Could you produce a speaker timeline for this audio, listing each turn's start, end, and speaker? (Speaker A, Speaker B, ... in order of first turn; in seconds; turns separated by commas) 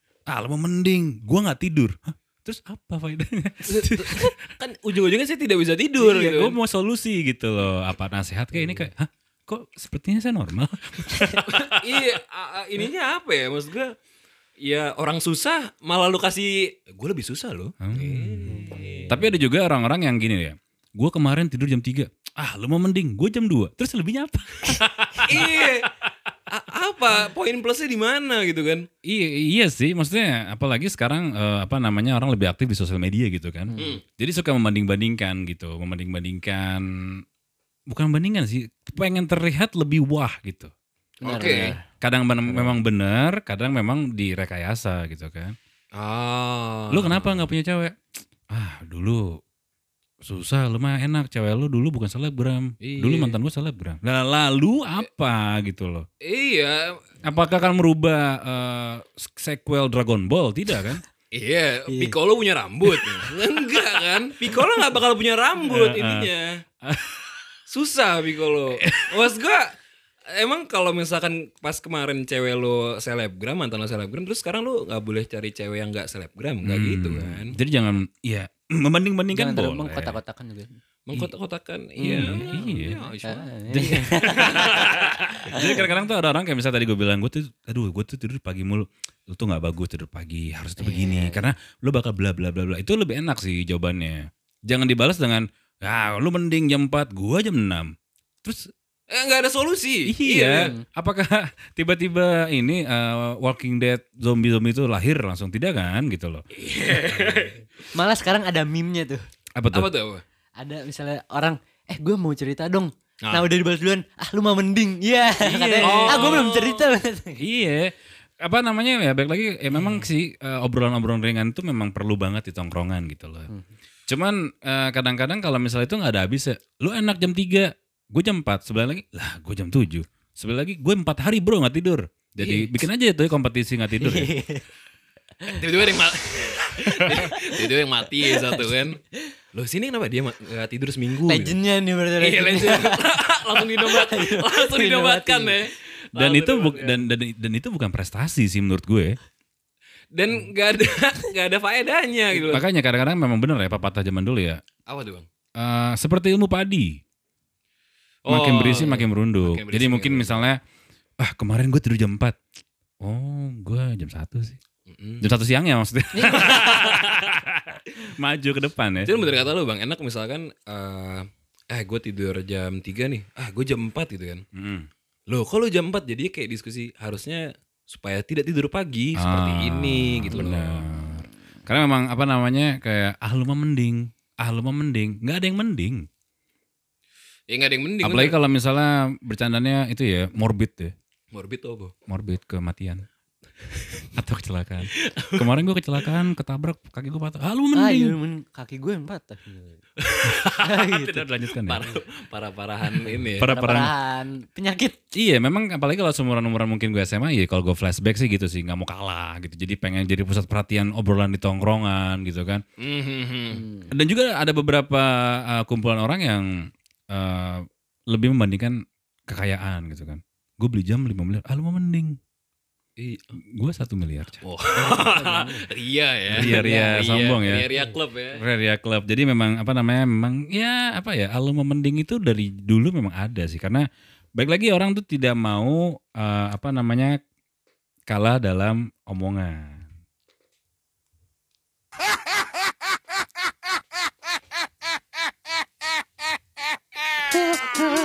Speaker A: 0.3-4.3, Speaker B: 3.7-6.6, Speaker A: 6.0-12.0, Speaker B: 11.5-13.9, Speaker B: 14.6-19.2, Speaker A: 17.8-25.7, Speaker C: 18.6-19.0, Speaker B: 25.3-25.9, Speaker B: 26.5-28.9, Speaker A: 29.0-37.2, Speaker C: 33.7-34.0, Speaker A: 37.9-40.7, Speaker B: 41.2-41.8, Speaker C: 41.2-41.8, Speaker A: 42.0-45.5, Speaker B: 42.5-42.8, Speaker B: 45.9-47.5, Speaker A: 46.9-48.0, Speaker A: 48.5-49.4, Speaker A: 50.2-56.1, Speaker B: 52.8-53.4, Speaker B: 56.2-57.1, Speaker A: 57.2-61.0, Speaker B: 61.3-66.6, Speaker C: 61.9-62.1, Speaker A: 65.6-66.3, Speaker A: 66.8-67.4, Speaker B: 67.7-69.7, Speaker A: 68.8-69.2, Speaker B: 70.3-77.5, Speaker A: 76.6-80.2, Speaker C: 79.3-80.7, Speaker B: 81.1-83.5, Speaker C: 82.0-84.7, Speaker A: 82.0-83.0, Speaker A: 83.7-97.9, Speaker B: 84.4-85.1, Speaker C: 85.4-85.8, Speaker C: 90.8-91.5, Speaker A: 98.4-98.7, Speaker B: 99.1-100.7, Speaker A: 100.1-106.5, Speaker C: 100.5-100.8, Speaker B: 106.5-107.6, Speaker C: 107.9-109.2, Speaker A: 109.6-109.9, Speaker B: 109.7-110.2, Speaker C: 110.6-117.4, Speaker B: 113.2-113.5, Speaker A: 115.4-116.5, Speaker B: 115.8-116.9, Speaker A: 117.4-123.5, Speaker A: 124.1-134.3, Speaker B: 132.4-132.8, Speaker C: 134.0-134.6, Speaker B: 135.5-139.0, Speaker C: 137.1-139.2, Speaker B: 139.5-141.6, Speaker C: 141.2-143.1, Speaker B: 142.2-147.0, Speaker C: 143.8-145.6, Speaker A: 146.1-149.2, Speaker B: 150.1-152.6, Speaker A: 152.4-154.6, Speaker B: 154.9-155.2, Speaker A: 155.6-157.0, Speaker B: 158.2-160.4, Speaker A: 158.2-160.6, Speaker A: 161.2-162.4, Speaker A: 163.0-164.6, Speaker B: 164.9-165.3, Speaker A: 165.2-169.1, Speaker C: 166.1-166.9, Speaker B: 169.0-174.4, Speaker A: 174.5-174.9, Speaker B: 175.3-180.8, Speaker A: 179.2-186.1, Speaker B: 187.5-188.4, Speaker A: 188.0-190.9, Speaker B: 191.3-191.9, Speaker A: 192.1-193.0, Speaker A: 194.1-198.2, Speaker B: 194.9-195.5, Speaker C: 197.7-199.8, Speaker B: 200.0-203.5, Speaker C: 200.6-201.2, Speaker A: 201.1-201.8, Speaker A: 203.4-203.9, Speaker C: 203.4-205.0, Speaker A: 205.1-212.6, Speaker B: 212.8-213.7, Speaker A: 213.9-222.2, Speaker B: 223.0-223.3, Speaker A: 223.5-224.4, Speaker B: 224.4-228.4, Speaker C: 224.8-225.6, Speaker A: 226.3-227.7, Speaker C: 226.4-227.0, Speaker A: 228.3-237.2, Speaker A: 238.1-239.9